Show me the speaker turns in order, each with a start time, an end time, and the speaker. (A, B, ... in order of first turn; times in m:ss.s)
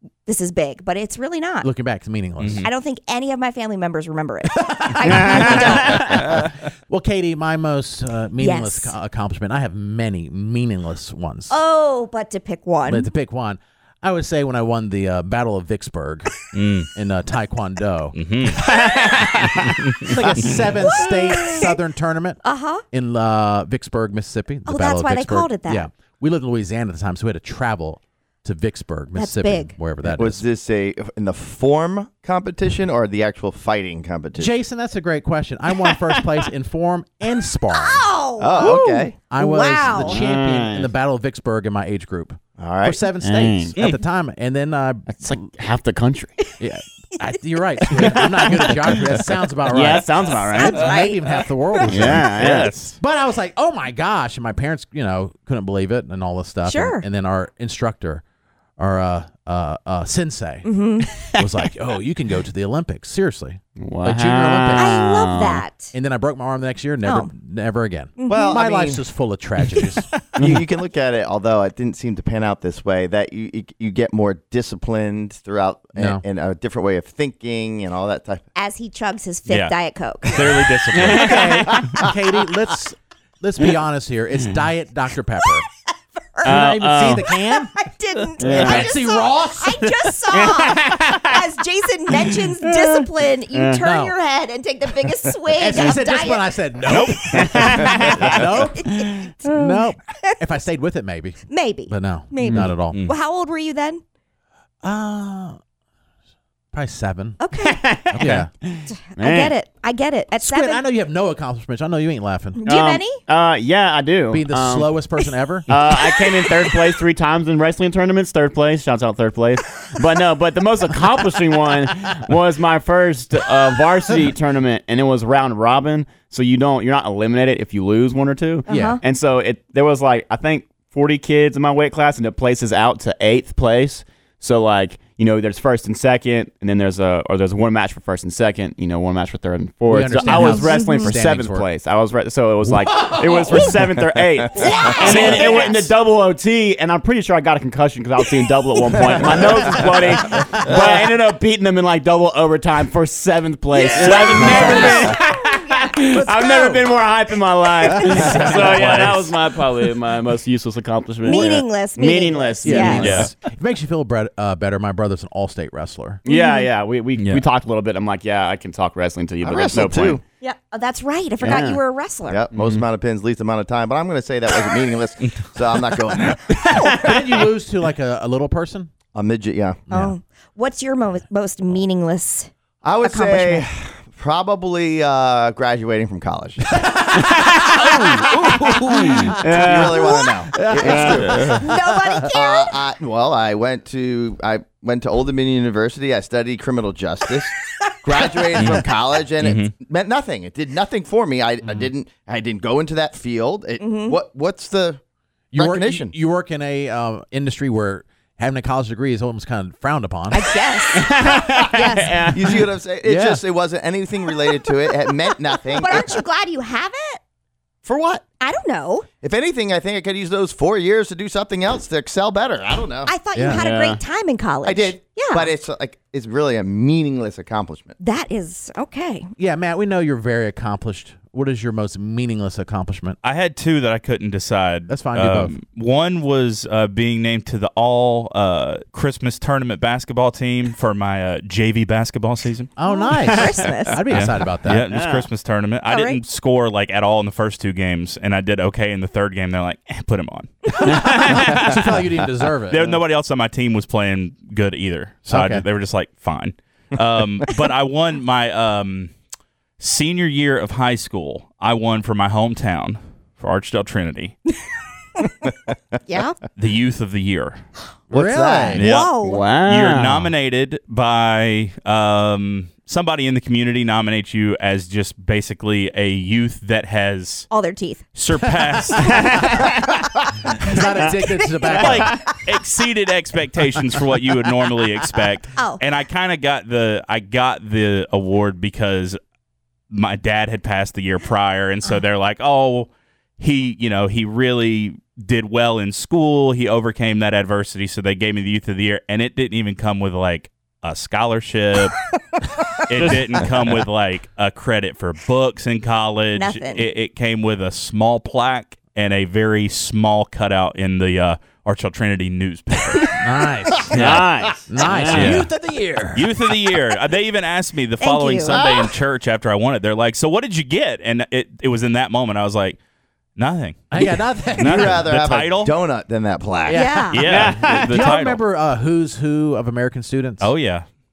0:00.2-0:01.7 A
0:01.6-0:02.7 B
0:02.4-0:02.7 C
0:02.6-0:06.4 A
0:04.6-0:11.5 B
0:05.0-0:06.3 D
0:08.4-0:08.9 A
0:11.5-0:13.1 A
0:12.8-0:16.4 B
0:16.5-0:16.9 C
0:16.9-0:18.2 B
0:18.1-0:18.6 C
0:18.6-0:19.6 D
0:19.6-0:20.1 C
0:20.0-0:30.4 B
0:20.8-0:21.7 A
0:22.4-0:22.8 A
0:24.7-0:25.9 A
0:29.2-0:29.8 A
0:30.0-0:34.5 E
0:34.4-0:38.1 B
0:37.7-0:40.2 A
0:38.4-0:39.1 E
0:39.3-0:45.5 B
0:40.0-0:40.9 D
0:42.6-0:43.0 E
0:43.2-0:43.7 D
0:45.1-0:46.4 D
0:46.6-0:58.2 B
0:47.9-0:49.1 D
0:48.0-0:49.1 A
0:49.7-0:50.8 D
0:50.4-0:52.1 A
0:51.9-0:52.7 D
0:52.3-0:53.0 C
0:56.6-0:57.0 A
0:58.8-1:00.7 B
1:00.6-1:01.4 A
1:01.3-1:05.0 B
1:03.8-1:05.6 D
1:04.8-1:05.9 A
1:05.9-1:10.1 B
1:07.0-1:07.3 A
1:08.2-1:08.6 A
1:08.3-1:09.0 E
1:10.4-1:18.4 E
1:16.0-1:16.2 B
1:18.5-1:20.6 A
1:19.5-1:21.4 C
1:20.9-1:21.8 D
1:21.1-1:25.6 B
1:26.2-1:26.6 A
1:26.4-1:27.3 D
1:26.4-1:27.7 B
1:27.2-1:36.6 A
1:28.4-1:28.9 D
1:28.4-1:30.1 B
1:30.3-1:31.4 D
1:32.1-1:33.0 D
1:33.5-1:33.8 D
1:33.8-1:34.2 B
1:35.6-1:43.0 B
1:36.8-1:37.3 C
1:37.3-1:39.5 A
1:37.4-1:39.7 D
1:41.5-1:44.0 A
1:42.4-1:42.7 D
1:44.8-1:45.6 B
1:46.7-1:47.4 B
1:47.4-1:48.0 A
1:47.6-1:49.5 D
1:48.1-1:48.5 B
1:48.9-1:50.8 A
1:50.4-1:52.6 B
1:52.6-1:53.2 A
1:52.6-1:54.9 D
1:54.3-1:55.7 B
1:55.7-2:43.3 D
1:56.0-1:56.6 A
2:08.7-2:09.0 B
2:08.7-2:09.0 A
2:19.9-2:21.7 B
2:20.3-2:21.1 A
2:22.7-2:23.7 B
2:24.4-2:24.9 E
2:24.6-2:25.8 A
2:24.6-2:25.6 B
2:30.4-2:30.7 B
2:33.7-2:35.2 B
2:34.1-2:35.1 A
2:36.1-2:36.9 B
2:37.9-2:39.1 B
2:38.7-2:39.3 C
2:41.2-2:43.2 A
2:42.6-2:46.2 B
2:43.0-2:43.3 C
2:46.2-2:50.2 D
2:46.2-2:46.7 A
2:47.2-2:47.4 C
2:49.4-2:50.2 E
2:50.4-2:52.4 A
2:51.4-2:51.8 D
2:52.3-2:56.6 E
2:52.5-2:52.8 D
2:56.5-2:57.1 A
2:56.7-2:57.2 D
2:56.8-2:58.9 B
2:59.1-2:59.9 E
2:59.9-3:03.6 A
3:02.8-3:06.8 E
3:06.8-3:09.4 B
3:07.2-3:07.9 D
3:09.4-3:10.0 D
3:09.4-3:11.6 E
3:09.9-3:12.8 A
3:10.5-3:11.6 B
3:10.8-3:11.6 D
3:12.3-3:25.0 E
3:18.6-3:18.8 C
3:19.4-3:19.7 C
3:23.8-3:24.2 A
3:25.5-3:30.4 B
3:25.5-3:26.1 E
3:30.3-3:32.3 A
3:31.0-3:32.5 D
3:32.3-3:36.2 E
3:33.0-3:33.4 B
3:35.7-3:37.2 A
3:37.8-3:38.2 E
3:38.4-3:39.1 A
3:39.2-3:43.1 E
3:43.0-3:45.5 A
3:43.3-3:43.6 B
3:43.5-3:44.0 D
3:44.6-3:48.0 E
3:48.0-3:49.3 A
3:49.4-3:53.2 B
3:53.2-4:02.7 C
3:54.9-3:55.6 B
4:02.8-4:04.8 B
4:02.8-4:04.0 A
4:03.2-4:03.6 D
4:04.1-4:11.8 C
4:04.8-4:05.3 D
4:05.9-4:06.2 A
4:10.7-4:11.1 A
4:10.9-4:11.6 D
4:11.1-4:13.0 B
4:12.7-4:19.1 C
4:15.3-4:15.6 B
4:19.8-4:24.3 C
4:26.0-4:26.4 A
4:26.6-4:27.6 C
4:28.1-4:28.9 B
4:28.1-4:28.9 E
4:28.7-4:37.5 C
4:28.8-4:29.5 A
4:29.2-4:30.3 D
4:37.5-4:38.1 A
4:38.1-4:39.5 C
4:38.8-4:39.6 B
4:39.1-4:39.7 D
4:40.4-4:42.2 B
4:41.0-4:42.4 A
4:41.7-4:49.2 C
4:45.6-4:45.8 A
4:49.9-5:02.0 C
5:02.9-5:13.2 C
5:06.3-5:06.9 A
5:13.2-5:16.3 B
5:13.9-5:14.3 C
5:13.9-5:15.4 D
5:15.0-5:15.5 C
5:16.1-5:22.8 C
5:18.0-5:18.7 A
5:18.5-5:18.9 E
5:23.4-5:25.7 C
5:23.9-5:25.1 B
5:24.6-5:27.0 E
5:26.6-5:30.5 B
5:26.7-5:27.2 A
5:27.1-5:28.4 C
5:27.2-5:28.1 D
5:30.4-5:30.8 C